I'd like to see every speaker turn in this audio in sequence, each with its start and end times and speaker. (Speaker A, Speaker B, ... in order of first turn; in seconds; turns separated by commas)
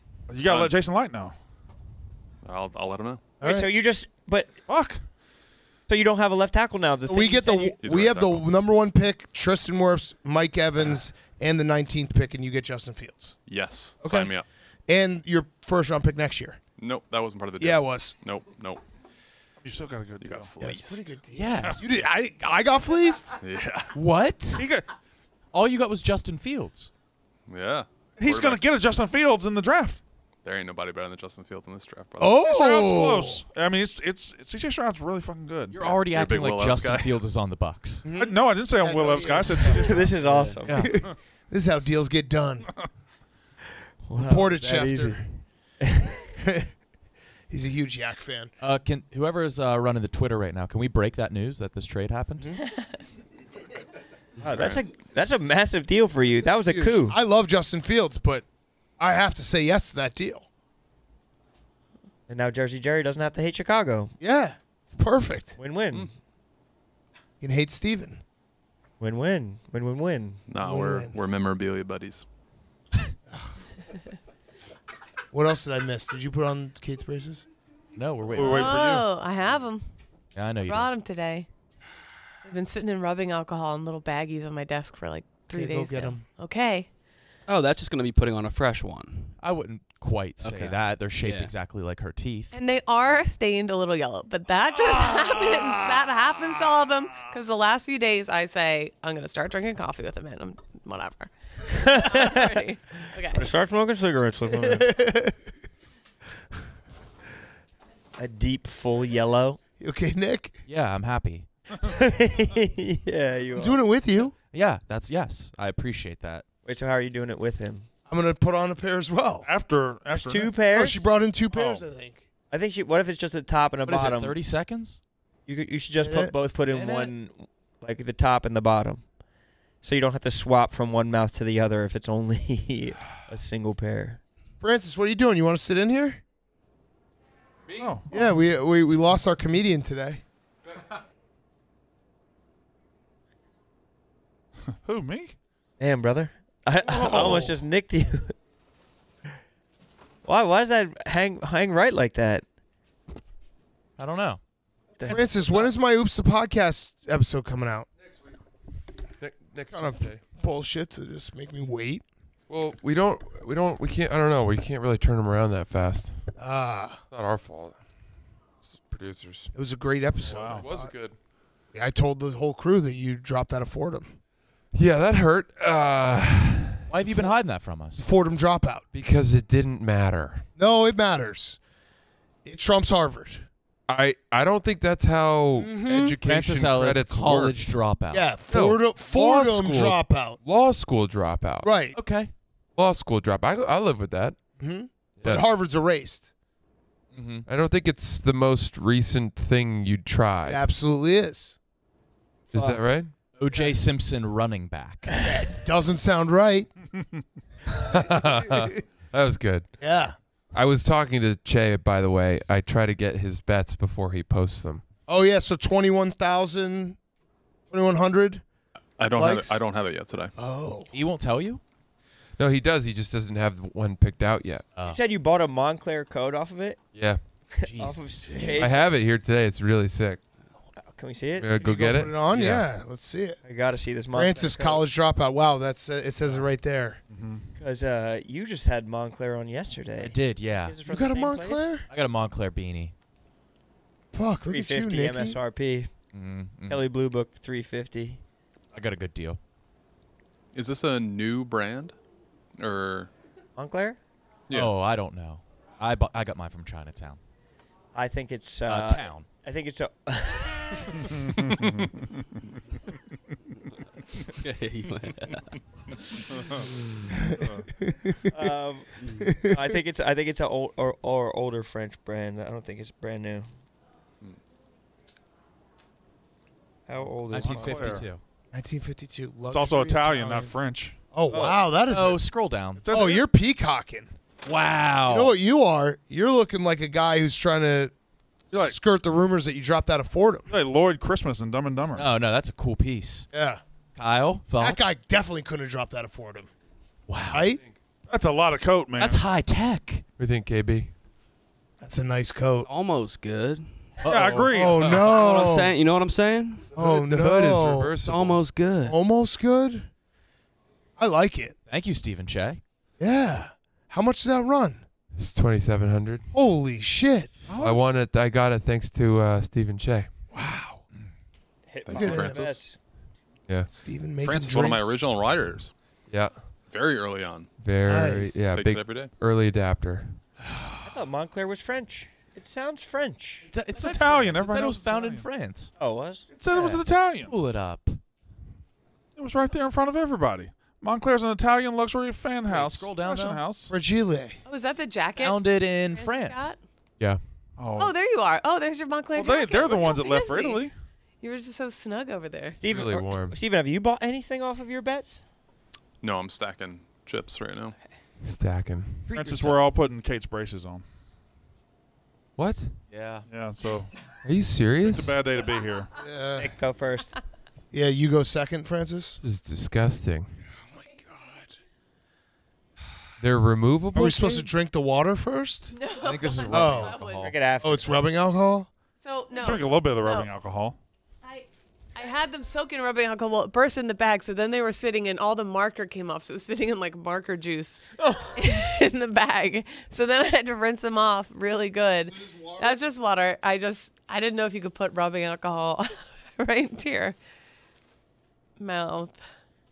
Speaker A: 0.3-1.3, Speaker B: 0.5-0.7, Speaker B: 2.4-3.3, Speaker C: 3.4-4.5, Speaker D: 3.4-3.7, Speaker A: 4.7-5.0, Speaker C: 5.9-7.8, Speaker D: 7.0-16.6, Speaker B: 7.8-8.4, Speaker B: 13.4-14.5, Speaker B: 16.8-18.8, Speaker D: 17.6-18.1, Speaker A: 19.6-20.5, Speaker B: 20.2-21.1, Speaker D: 20.6-23.3, Speaker E: 21.3-21.8, Speaker B: 23.4-23.9, Speaker E: 23.9-24.6, Speaker A: 24.6-24.9, Speaker E: 25.5-26.9, Speaker B: 27.5-28.7, Speaker A: 28.2-30.0, Speaker B: 30.4-32.4, Speaker D: 32.2-33.4, Speaker A: 32.4-35.8, Speaker E: 35.7-38.0, Speaker B: 35.8-37.2, Speaker D: 38.0-40.1, Speaker A: 38.1-40.1, Speaker C: 39.7-40.7, Speaker E: 40.1-41.0, Speaker D: 40.7-42.8, Speaker C: 44.0-46.2, Speaker D: 44.1-45.3, Speaker D: 46.4-46.7, Speaker D: 47.5-48.5, Speaker E: 48.6-52.5, Speaker D: 52.4-52.6, Speaker C: 54.4-57.1, Speaker B: 54.5-54.8, Speaker D: 56.6-58.5, Speaker D: 59.0-60.5, Speaker C: 62.3-64.1, Speaker D: 64.2-65.6, Speaker C: 65.6-66.2, Speaker D: 67.4-68.2, Speaker C: 69.0-70.4, Speaker B: 70.5-72.2, Speaker D: 70.6-71.1, Speaker D: 75.3-77.5, Speaker E: 77.9-79.0, Speaker A: 78.3-79.1, Speaker F: 78.4-79.9, Speaker E: 80.3-80.9, Speaker F: 80.6-81.5, Speaker F: 82.4-86.9, Speaker D: 85.5-86.2, Speaker G: 87.5-89.4, Speaker E: 89.4-92.5, Speaker G: 90.4-91.5, Speaker F: 92.5-103.5, Speaker C: 101.7-102.5, Speaker C: 103.3-104.9, Speaker D: 104.6-105.4, Speaker C: 108.2-109.6, Speaker D: 109.8-110.6, Speaker E: 110.7-111.5, Speaker C: 111.8-113.8, Speaker D: 113.5-114.3, Speaker E: 114.5-116.4, Speaker C: 116.6-117.9, Speaker D: 118.1-119.5, Speaker A: 119.4-120.5, Speaker C: 120.1-121.0, Speaker D: 120.7-122.2, Speaker A: 121.5-121.8, Speaker C: 122.5-124.4, Speaker E: 123.8-125.0, Speaker C: 125.5-129.1, Speaker D: 126.0-126.3, Speaker E: 126.6-127.1, Speaker C: 129.8-134.2, Speaker D: 134.6-136.2, Speaker A: 137.8-138.1, Speaker D: 138.1-140.2, Speaker A: 144.8-145.3, Speaker C: 145.8-148.4, Speaker D: 146.8-147.6, Speaker C: 150.2-152.4, Speaker E: 154.0-154.4, Speaker C: 155.0-155.7, Speaker D: 155.0-157.9, Speaker H: 159.2-160.2, Speaker D: 159.7-162.0, Speaker H: 162.5-166.3, Speaker D: 166.3-167.0, Speaker H: 167.1-167.8, Speaker H: 168.8-169.5, Speaker D: 169.5-170.9, Speaker A: 170.2-170.6, Speaker H: 170.6-171.1, Speaker D: 171.7-174.2, Speaker H: 174.7-176.9, Speaker E: 176.9-178.1, Speaker D: 177.9-178.8, Speaker H: 178.9-180.5, Speaker D: 180.6-181.6, Speaker D: 182.4-183.5, Speaker H: 183.9-187.7, Speaker D: 185.6-186.2, Speaker E: 186.2-188.4, Speaker D: 188.1-190.4, Speaker H: 188.4-191.8, Speaker D: 191.6-192.0, Speaker E: 191.9-192.3, Speaker H: 192.7-194.5, Speaker D: 194.6-196.3, Speaker E: 197.1-197.5, Speaker H: 197.5-200.7, Speaker D: 200.4-201.6, Speaker H: 202.5-203.2, Speaker C: 202.5-202.8, Speaker E: 203.2-205.1, Speaker D: 205.2-206.7, Speaker H: 207.8-210.0, Speaker D: 209.8-210.2, Speaker H: 210.5-214.8, Speaker D: 215.1-217.0, Speaker D: 217.7-219.6, Speaker B: 219.0-220.3, Speaker D: 220.3-220.9, Speaker E: 220.9-221.6, Speaker H: 222.4-224.7, Speaker E: 224.7-225.0, Speaker C: 224.8-229.0, Speaker H: 226.9-227.4, Speaker E: 227.6-228.7, Speaker D: 228.3-228.6, Speaker H: 228.5-230.2, Speaker C: 230.7-231.5, Speaker H: 231.3-232.5, Speaker D: 231.6-233.4, Speaker E: 232.3-232.6, Speaker C: 233.4-234.8, Speaker D: 234.1-237.0, Speaker A: 237.1-237.4, Speaker C: 237.6-241.8, Speaker E: 240.0-240.8, Speaker D: 240.8-241.9, Speaker E: 241.9-242.9, Speaker D: 244.1-245.4, Speaker C: 244.5-246.0, Speaker E: 246.1-246.8, Speaker C: 246.6-248.2, Speaker E: 248.7-249.4, Speaker B: 250.5-252.0, Speaker B: 252.6-253.1, Speaker C: 253.6-254.0, Speaker B: 254.5-254.7, Speaker E: 254.5-257.2, Speaker C: 257.9-261.1, Speaker E: 258.6-259.3, Speaker A: 261.4-262.1, Speaker G: 264.4-265.4, Speaker D: 267.9-268.5, Speaker C: 268.3-273.5, Speaker G: 269.0-269.4, Speaker D: 269.2-269.8, Speaker C: 276.9-278.1, Speaker E: 277.1-278.2, Speaker A: 277.4-278.1, Speaker D: 278.5-280.5, Speaker A: 279.5-280.9, Speaker D: 281.1-282.2, Speaker C: 281.3-281.6, Speaker E: 281.9-282.8, Speaker A: 282.8-283.2, Speaker D: 282.9-284.1, Speaker E: 284.4-285.3, Speaker D: 285.1-287.9, Speaker D: 288.5-290.5, Speaker A: 288.5-288.8, Speaker A: 290.5-292.1, Speaker E: 291.9-293.3, Speaker D: 293.3-293.6, Speaker E: 293.9-294.8, Speaker D: 294.6-296.5, Speaker E: 297.1-297.5, Speaker D: 297.3-297.6, Speaker A: 298.1-299.2, Speaker E: 299.0-300.1, Speaker H: 300.2-300.9, Speaker D: 301.8-302.7, Speaker G: 302.6-304.0, Speaker E: 304.0-304.7, Speaker A: 304.1-304.9, Speaker D: 304.5-305.7, Speaker G: 305.0-306.7, Speaker D: 306.7-308.0, Speaker H: 306.8-308.5, Speaker G: 307.9-308.9, Speaker D: 308.7-309.9, Speaker D: 311.0-311.6, Speaker E: 311.7-312.6, Speaker D: 313.0-314.8, Speaker H: 315.1-316.3, Speaker D: 316.3-317.3, Speaker A: 317.5-317.9, Speaker H: 317.6-320.3, Speaker D: 320.3-320.8, Speaker C: 321.7-322.8, Speaker B: 321.9-322.5, Speaker D: 321.9-322.8, Speaker H: 323.5-323.7, Speaker D: 323.7-324.9, Speaker B: 324.2-325.7, Speaker H: 326.1-326.5, Speaker B: 326.6-327.5, Speaker H: 327.6-330.2, Speaker D: 327.8-328.4, Speaker B: 328.4-329.1, Speaker C: 330.8-333.5, Speaker E: 333.4-335.7, Speaker A: 333.7-335.3, Speaker C: 335.8-336.3, Speaker A: 336.3-337.3, Speaker E: 336.5-338.0, Speaker A: 339.1-343.7, Speaker E: 342.5-343.5, Speaker D: 343.7-344.4, Speaker F: 344.4-346.6, Speaker E: 345.2-346.6, Speaker A: 347.6-347.9, Speaker F: 347.8-352.6, Speaker A: 349.1-350.7, Speaker C: 352.6-355.2, Speaker H: 352.6-353.4, Speaker B: 356.0-357.8, Speaker H: 358.2-359.1, Speaker E: 359.1-359.6, Speaker A: 359.1-360.8, Speaker H: 362.4-362.8, Speaker E: 362.9-363.2, Speaker A: 363.3-363.9, Speaker H: 364.2-365.1, Speaker A: 364.8-365.9, Speaker D: 366.0-366.5, Speaker C: 366.4-367.2, Speaker D: 367.7-369.2, Speaker H: 369.2-370.3, Speaker D: 370.5-371.6, Speaker H: 373.2-374.3, Speaker D: 373.9-375.8, Speaker F: 375.7-377.3, Speaker E: 375.9-377.3, Speaker D: 376.5-377.1, Speaker C: 377.1-378.0, Speaker D: 377.6-378.7, Speaker F: 379.0-380.3, Speaker A: 379.3-380.8, Speaker F: 381.2-387.8, Speaker C: 388.0-388.4, Speaker F: 388.3-397.2, Speaker D: 392.1-392.8, Speaker F: 398.6-399.2